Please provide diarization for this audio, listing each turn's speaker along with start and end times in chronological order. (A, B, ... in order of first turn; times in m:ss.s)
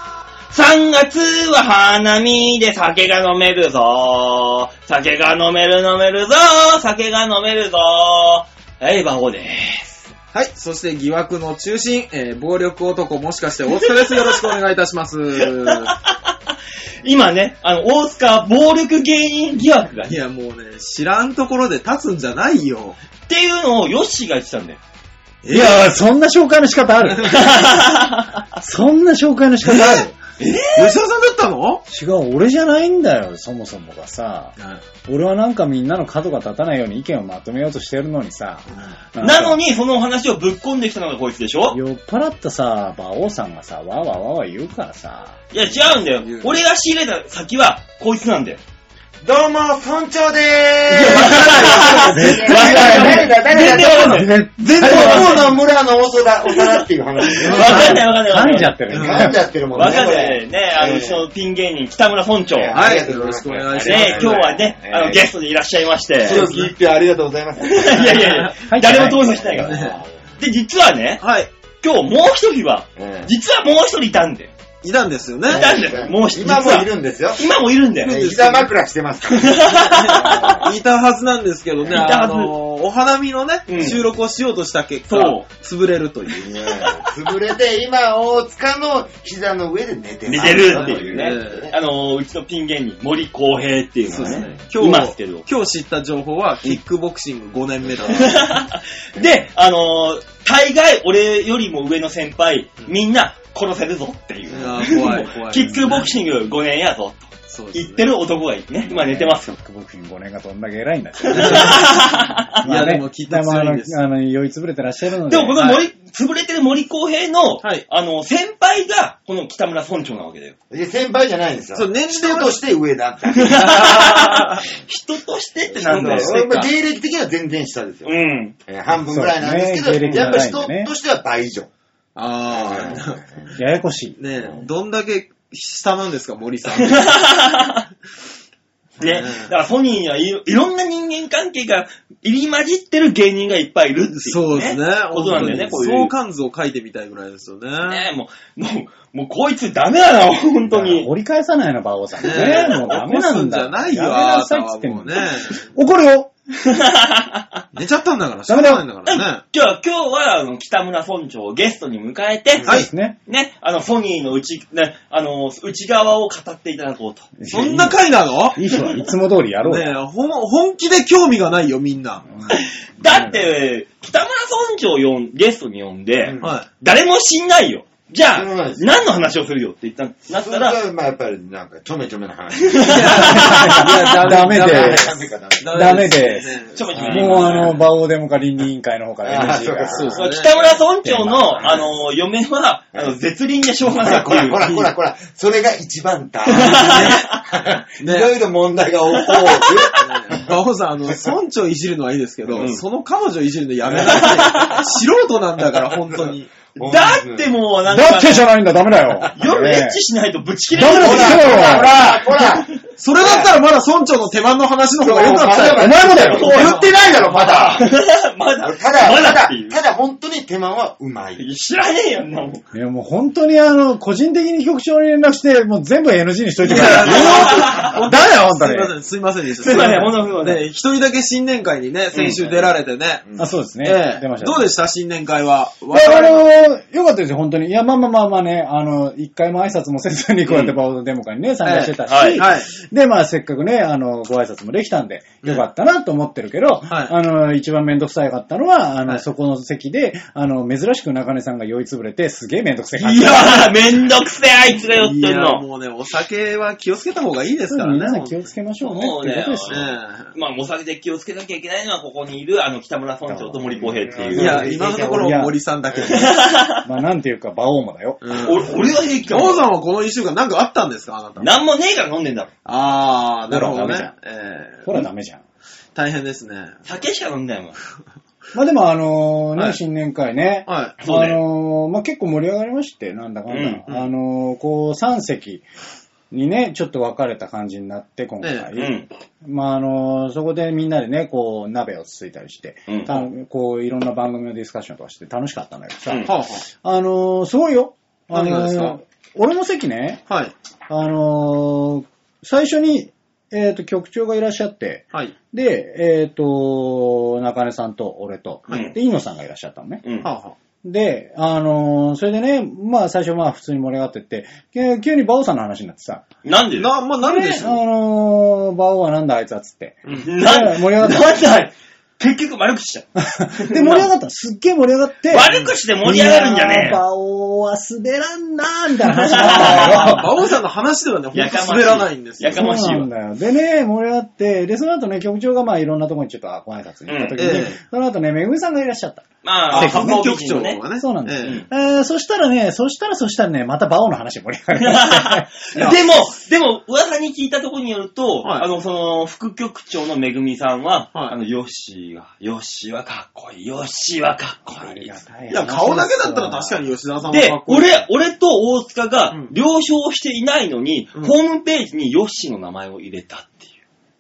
0:00.5-0:10.1 A
0:10.3-0:16.0 B
0:15.9-0:16.3 A
0:17.0-0:20.2 A
0:20.1-0:23.0 B
0:23.3-0:24.8 A
0:25.4-0:25.9 B
0:25.5-0:27.6 C
0:27.0-0:27.5 B
0:27.3-0:28.5 A
0:28.6-0:30.2 C
0:29.7-0:31.0 A
0:30.8-0:31.8 B
0:31.9-0:34.6 C
0:34.6-0:34.8 B
0:35.1-0:39.6 C
0:39.2-0:41.8 A
0:41.7-0:45.4 C
0:45.5-0:48.6 A
0:46.3-0:46.6 B
0:49.2-0:58.1 D
0:50.9-0:55.6 A
0:51.0-0:53.2 B
0:52.1-0:53.3 C
0:53.8-0:55.5 C
0:56.5-0:58.9 A
0:57.4-0:59.4 C
0:57.4-0:57.9 B
0:58.9-0:59.3 B
0:58.9-1:01.3 D
0:59.8-1:02.8 A
1:02.5-1:05.3 D
1:02.7-1:04.6 B
1:03.8-1:06.5 A
1:06.2-1:08.5 D
1:06.3-1:06.7 B
1:07.6-1:09.8 A
1:08.2-1:08.5 B
1:08.7-1:09.4 C
1:09.3-1:10.4 D
1:09.6-1:10.0 B
1:10.4-1:11.3 A
1:11.2-1:11.5 B
1:11.8-1:14.5 A
1:13.0-1:13.3 D
1:14.8-1:15.7 B
1:15.5-1:17.4 D
1:15.5-1:18.2 A
1:18.0-1:18.7 B
1:18.0-1:20.7 D
1:19.3-1:20.4 A
1:19.7-1:26.5 B
1:21.9-1:22.5 A
1:23.7-1:24.0 A
1:25.1-1:25.4 A
1:26.4-1:31.8 D
1:30.2-1:35.5 A
1:30.3-1:31.7 B
1:34.1-1:34.7 D
1:34.1-1:38.5 B
1:38.0-1:49.6 A
1:44.5-1:46.2 B
1:47.5-1:48.0 B
1:48.8-1:55.6 C
1:51.3-1:52.0 B
1:51.3-1:52.6 A
1:52.6-1:54.0 B
1:55.3-2:00.6 A
1:55.6-1:55.9 B
2:00.7-2:04.0 D
2:01.7-2:02.6 B
2:03.4-2:06.7 A
2:03.5-2:04.7 B
2:05.7-2:08.1 D
2:05.9-2:06.3 B
2:08.0-2:08.6 A
2:08.7-2:11.7 D
2:09.1-2:10.9 C
2:12.2-2:13.2 B
2:12.5-2:13.6 D
2:13.6-2:14.2 C
2:14.2-2:17.2 B
2:14.4-2:14.7 D
2:16.8-2:17.9 A
2:19.0-2:26.1 A
2:19.0-2:19.5 B
2:24.1-2:28.1 B
2:27.8-2:31.1 A
2:30.7-2:36.3 C
2:32.2-2:35.6 B
2:32.2-2:33.1 A
2:36.7-2:37.6 A
2:37.7-2:39.4 B
2:38.5-2:38.8 C
2:39.1-2:47.3 A
2:42.6-2:43.2 C
2:42.6-2:42.9 B
2:47.4-2:48.0 C
2:47.5-2:48.6 B
2:48.5-2:50.0 C
2:49.6-2:52.2 B
2:52.3-2:53.5 C
2:52.5-3:00.8 A
2:56.2-2:56.6 D
2:56.4-2:56.7 B
2:58.3-2:58.9 D
3:00.3-3:03.5 D
3:02.7-3:03.8 A
3:02.8-3:07.8 B
3:03.2-3:05.2 C
3:04.2-3:06.4 D
3:05.7-3:10.2 C
3:06.7-3:07.8 A
3:09.2-3:10.2 D
3:09.9-3:10.8 B
3:10.1-3:14.9 A
3:11.0-3:11.7 C
3:11.6-3:12.0 D
3:13.9-3:20.5 D
3:16.5-3:17.4 A
3:16.7-3:17.2 B
3:18.0-3:18.4 B
3:19.2-3:20.0 A
3:20.0-3:26.5 B
3:21.1-3:21.3 D
3:22.5-3:22.8 A
3:23.8-3:24.3 D
3:24.0-3:24.8 A
3:26.2-3:27.5 D
3:26.8-3:28.5 A
3:27.9-3:30.0 C
3:29.3-3:32.7 A
3:30.7-3:32.3 C
3:30.9-3:33.5 D
3:33.0-3:37.5 B
3:35.0-3:37.9 D
3:35.1-3:36.7 C
3:36.0-3:36.8 A
3:37.4-3:39.8 A
3:38.6-3:41.4 D
3:41.4-3:42.6 A
3:42.7-3:49.0 C
3:46.6-3:56.4 B
3:46.8-3:48.0 A
3:49.6-3:50.6 A
3:52.1-3:52.4 A
3:53.2-3:53.5 D
3:53.4-3:54.7 C
3:55.9-4:13.8 C
4:00.5-4:00.8 B
4:01.6-4:02.7 B
4:02.0-4:02.4 A
4:06.9-4:07.2 B
4:13.0-4:15.6 A
4:15.0-4:18.5 B
4:17.7-4:19.9 C
4:18.8-4:24.8 A
4:19.7-4:20.3 B
4:23.3-4:25.5 C
4:23.8-4:25.3 D
4:24.3-4:26.4 B
4:25.9-4:26.2 D
4:26.1-4:26.8 A
4:26.8-4:28.3 C
4:28.2-4:28.7 B
4:28.4-4:29.7 A
4:29.3-4:31.5 B
4:31.4-4:32.5 A
4:32.7-4:35.1 B
4:33.5-4:34.1 C
4:34.8-4:35.4 C
4:36.0-4:36.8 B
4:36.8-4:37.8 A
4:38.5-4:45.6 C
4:40.6-4:41.0 B
4:41.0-4:41.4 A
4:43.5-4:43.8 A
4:46.3-5:00.2 C
4:48.4-4:48.7 B
4:48.8-4:49.1 A
4:52.9-4:53.2 A
4:56.2-4:56.7 B
4:58.3-4:59.0 B
5:00.3-5:00.5 B
5:00.9-5:10.0 C
5:08.7-5:08.9 B
5:10.0-5:10.3 A
5:10.2-5:10.6 B
5:10.8-5:16.3 C
5:16.4-5:16.9 A
5:16.8-5:17.8 B
5:17.2-5:21.3 C
5:20.2-5:24.1 A
5:23.2-5:30.4 C
5:25.3-5:27.0 A
5:29.2-5:30.2 A
5:29.4-5:32.7 B
5:31.3-5:33.1 A
5:32.5-5:40.2 C
5:37.1-5:37.4 A
5:37.4-5:37.8 B
5:39.4-5:40.8 A
5:39.7-5:41.6 B
5:41.0-5:45.7 C
5:41.4-5:41.7 A
5:44.8-5:55.2 A
5:45.8-5:46.0 B
5:48.4-5:48.7 B
5:54.8-5:56.9 C
5:55.5-5:58.1 B
5:57.2-6:03.7 A
5:59.3-5:59.6 B